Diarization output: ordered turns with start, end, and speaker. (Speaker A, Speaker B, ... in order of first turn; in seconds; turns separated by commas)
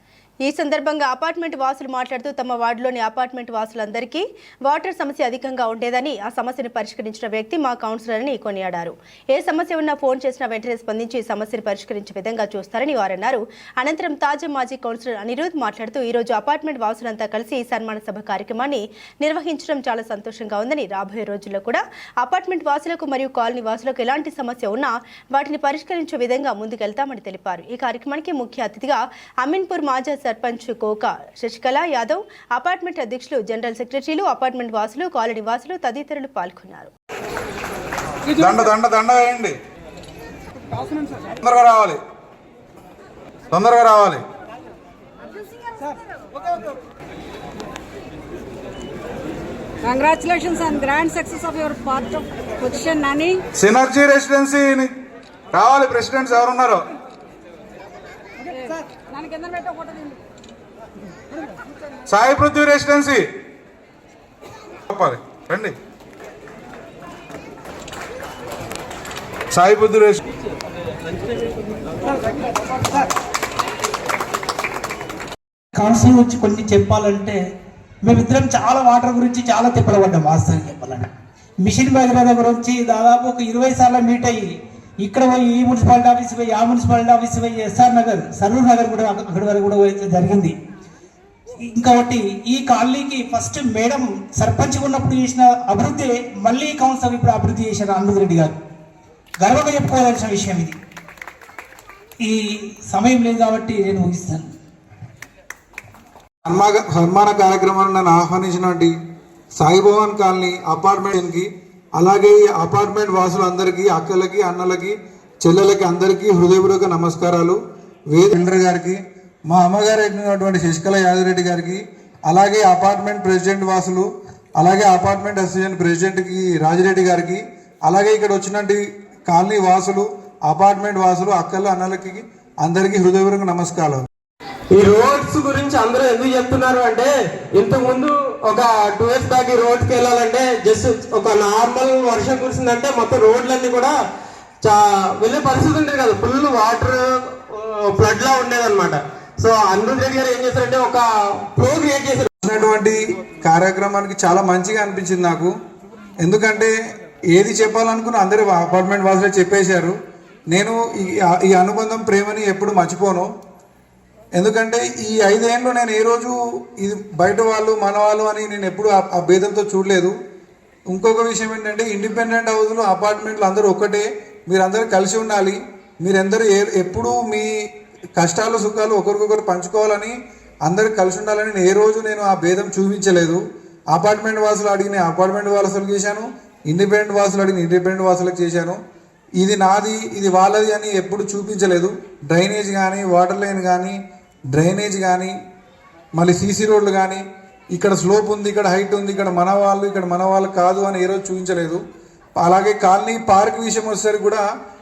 Speaker A: 0.4-36.9, Speaker B: 38.3-39.6, Speaker B: 41.4-42.0, Speaker B: 43.5-44.2, Speaker C: 49.8-53.4, Speaker B: 53.6-54.9, Speaker B: 55.5-56.8, Speaker C: 58.6-60.1, Speaker B: 62.1-63.3, Speaker B: 64.9-65.8, Speaker B: 69.5-70.2, Speaker D: 75.7-77.4, Speaker D: 78.0-90.6, Speaker D: 91.6-98.6, Speaker D: 99.4-100.8, Speaker D: 102.2-104.5, Speaker B: 106.5-108.9, Speaker B: 109.5-117.6, Speaker B: 118.1-134.0, Speaker E: 134.7-143.9, Speaker E: 144.6-152.3, Speaker B: 152.4-155.5, Speaker B: 156.2-156.7, Speaker B: 157.3-159.9, Speaker B: 160.5-163.3, Speaker B: 164.3-170.1, Speaker B: 170.9-177.5, Speaker B: 178.2-180.1, Speaker B: 180.7-183.4, Speaker B: 183.9-188.8, Speaker B: 189.4-194.0, Speaker B: 194.5-195.3, Speaker B: 196.2-197.2, Speaker B: 197.8-201.8, Speaker B: 202.4-204.4